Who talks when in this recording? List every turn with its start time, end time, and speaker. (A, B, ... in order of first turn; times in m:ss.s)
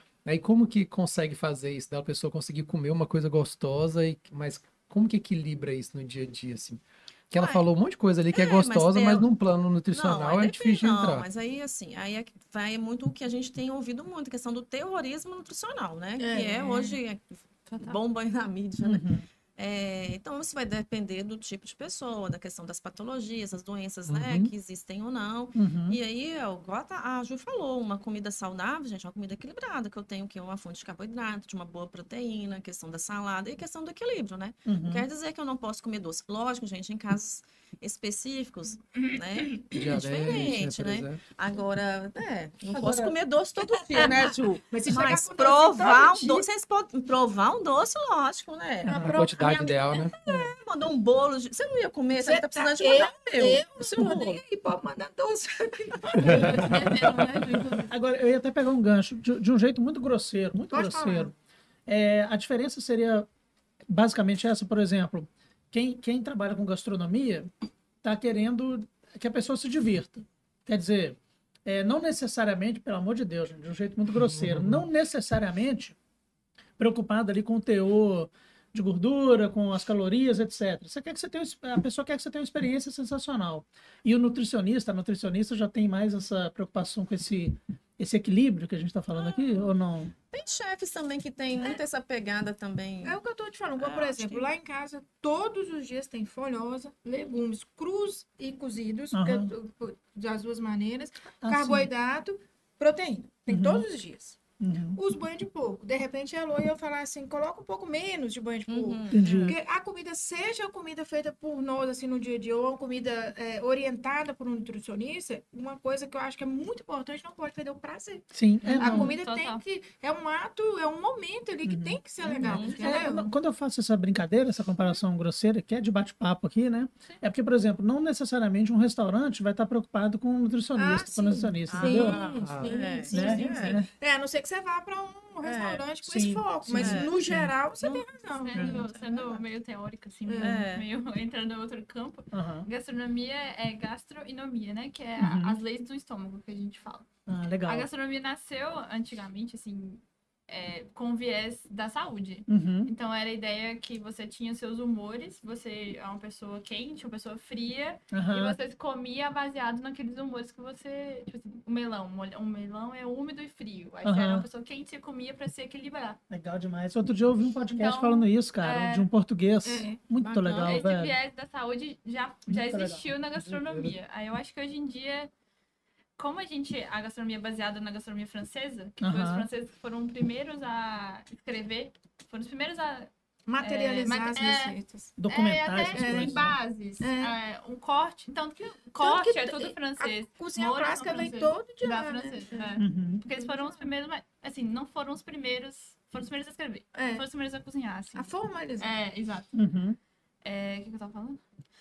0:00.2-0:11.3 A
0:07.3-0:07.6 B
0:08.3-0:09.3 B
0:09.9-0:48.9 B
0:16.2-0:17.0 C
0:17.7-0:18.0 D
0:18.8-0:19.2 E
0:24.1-0:24.5 A
0:25.5-0:26.0 E
0:34.6-0:35.1 E
0:39.0-0:39.7 C
0:39.7-0:41.2 A
0:42.7-0:43.0 E
0:42.7-0:46.4 C
0:48.8-0:50.5 C
0:48.9-0:50.4 A
0:50.2-0:54.3 B
0:52.1-0:57.7 C
0:54.0-0:54.4 E
0:56.2-0:57.0 A
0:56.2-0:57.9 D
0:57.9-1:01.3 E
1:00.7-1:01.3 C
1:01.9-1:03.3 E
1:03.9-1:07.5 E
1:08.0-1:16.0 E
1:14.1-1:14.9 A
1:16.8-1:30.1 E
1:30.3-1:33.2 B
1:33.0-1:44.4 C
1:33.8-1:34.5 B
1:39.1-1:39.5 E
1:41.4-1:41.9 E
1:43.5-1:43.9 E
1:44.6-1:45.0 E
1:44.9-2:03.3 C
1:48.7-1:49.5 B
1:49.1-1:49.6 E
1:58.3-1:59.2 E
1:58.6-1:59.6 D
2:01.6-2:12.2 E
2:02.4-2:03.0 B
2:02.7-2:03.2 D
2:10.7-2:18.8 C
2:11.7-2:13.8 B
2:12.4-2:12.7 A
2:13.1-2:13.9 E
2:15.4-2:15.8 B
2:16.0-2:17.5 E
2:16.8-2:17.1 B
2:18.2-2:27.1 D
2:18.6-2:19.4 B
2:20.2-2:20.6 C
2:20.4-2:20.9 B
2:22.3-2:22.7 E
2:25.2-2:25.6 E
2:27.3-2:27.9 E
2:27.6-2:46.2 D
2:32.5-2:32.9 E
2:38.1-2:38.6 E
2:44.0-2:44.5 E
2:46.3-2:51.2 E
2:47.7-2:49.1 D
2:49.6-2:50.0 C
2:50.2-2:50.9 B
2:50.6-2:55.3 D
2:52.5-2:53.1 E
2:53.4-2:53.9 A
2:56.2-3:04.8 D
2:59.0-2:59.5 E
3:03.5-3:05.1 C
3:05.2-3:06.6 E
3:05.3-3:19.5 D
3:05.9-3:06.5 C
3:07.0-3:07.4 C
3:09.0-3:12.8 C
3:12.8-3:13.2 E
3:13.3-3:13.8 C
3:16.9-3:17.2 C
3:18.1-3:18.9 C
3:19.5-3:20.0 E
3:20.4-3:21.4 D